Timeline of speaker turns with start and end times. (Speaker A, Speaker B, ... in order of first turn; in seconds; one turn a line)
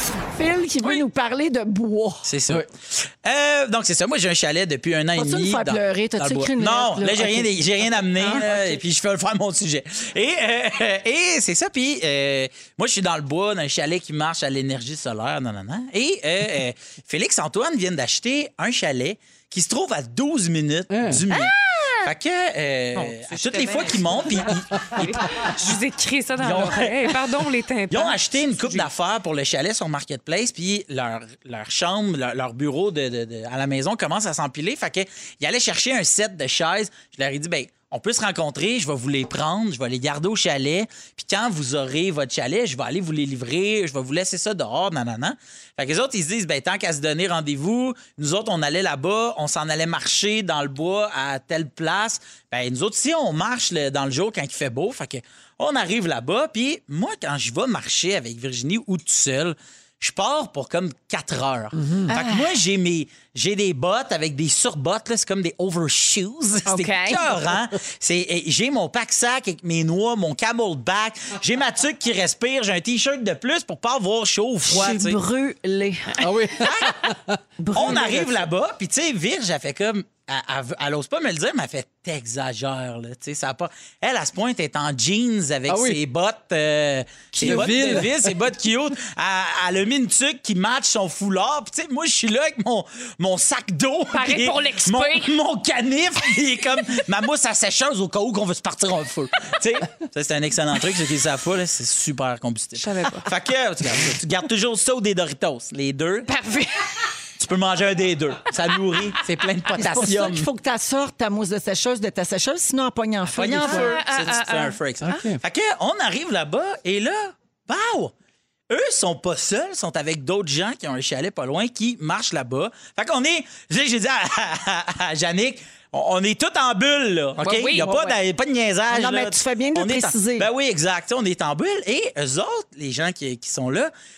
Speaker A: 0.3-2.3
Speaker B: 2.2-2.7
Speaker B: 3.2-25.3
Speaker A: 5.1-8.7
Speaker C: 20.9-21.2
Speaker D: 21.3-22.0
Speaker D: 23.0-28.2
Speaker B: 26.4-27.2
Speaker B: 27.9-75.2
Speaker C: 61.8-62.1
Speaker A: 62.1-62.5
Speaker D: 66.7-67.2
Speaker A: 74.7-76.3
Speaker C: 76.2-78.1
Speaker B: 76.6-77.1
Speaker A: 77.6-78.3
Speaker B: 77.7-106.3
Speaker C: 85.7-86.0
Speaker A: 87.3-88.1
Speaker C: 87.4-88.3
Speaker D: 94.1-95.3
Speaker D: 102.8-103.3
Speaker D: 106.3-107.0
Speaker B: 107.4-110.5
Speaker A: 109.8-114.0
Speaker B: 113.3-118.1
Speaker D: 113.7-114.8
Speaker C: 115.0-115.4
Speaker B: 118.7-133.9
Speaker D: 127.4-128.2
Speaker A: 128.9-130.5